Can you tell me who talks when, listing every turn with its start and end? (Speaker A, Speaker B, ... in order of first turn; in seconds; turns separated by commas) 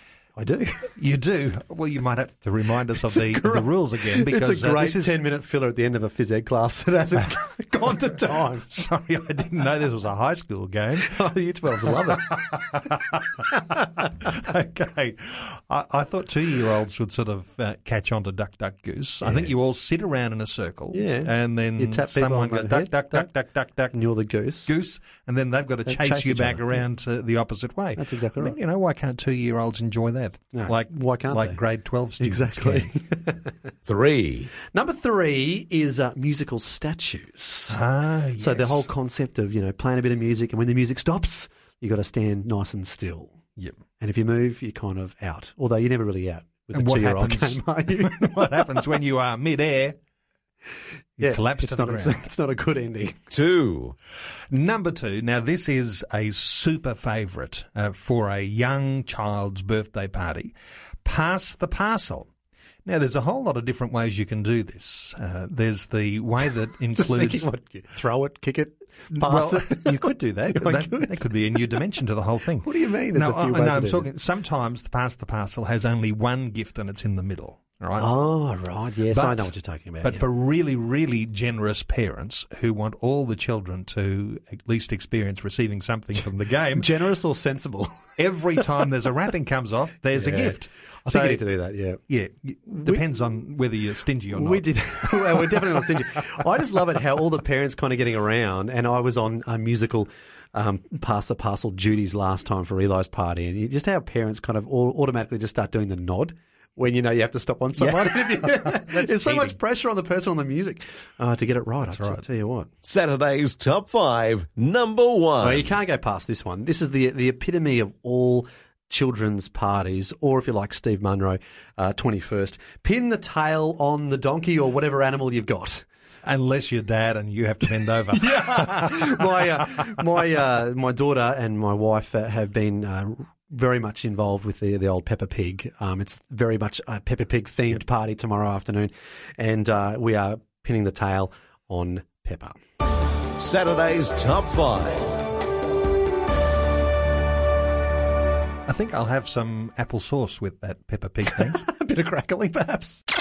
Speaker A: 0.3-0.8, Speaker B: 0.9-5.2, Speaker A: 3.0-8.7, Speaker B: 8.7-11.2, Speaker A: 11.0-12.3, Speaker B: 12.2-24.0, Speaker A: 19.2-19.5, Speaker A: 20.9-23.3, Speaker A: 23.9-24.7, Speaker B: 24.6-32.9, Speaker A: 25.9-26.8, Speaker A: 28.0-28.5, Speaker A: 30.5-31.6, Speaker A: 32.2-33.5, Speaker C: 33.9-34.5, Speaker A: 34.6-37.8, Speaker B: 37.7-38.9, Speaker A: 38.4-43.4, Speaker A: 44.0-48.6, Speaker B: 46.7-50.0, Speaker B: 51.2-52.2, Speaker A: 51.2-53.3, Speaker C: 53.3-53.9, Speaker B: 54.5-62.3, Speaker B: 62.8-67.5, Speaker A: 67.0-71.2, Speaker B: 69.1-70.0, Speaker B: 70.5-78.1, Speaker A: 72.6-74.1, Speaker A: 78.0-80.2, Speaker B: 79.1-79.5, Speaker B: 80.0-86.9, Speaker A: 86.7-88.0, Speaker B: 88.2-91.4, Speaker A: 90.1-92.0, Speaker B: 92.1-95.5, Speaker A: 94.3-112.7, Speaker B: 107.8-109.5, Speaker B: 111.9-112.2, Speaker C: 112.8-115.7, Speaker A: 115.4-125.8, Speaker B: 126.2-129.6, Speaker A: 128.1-142.6, Speaker C: 143.4-145.2, Speaker B: 148.7-151.6, Speaker A: 151.4-153.0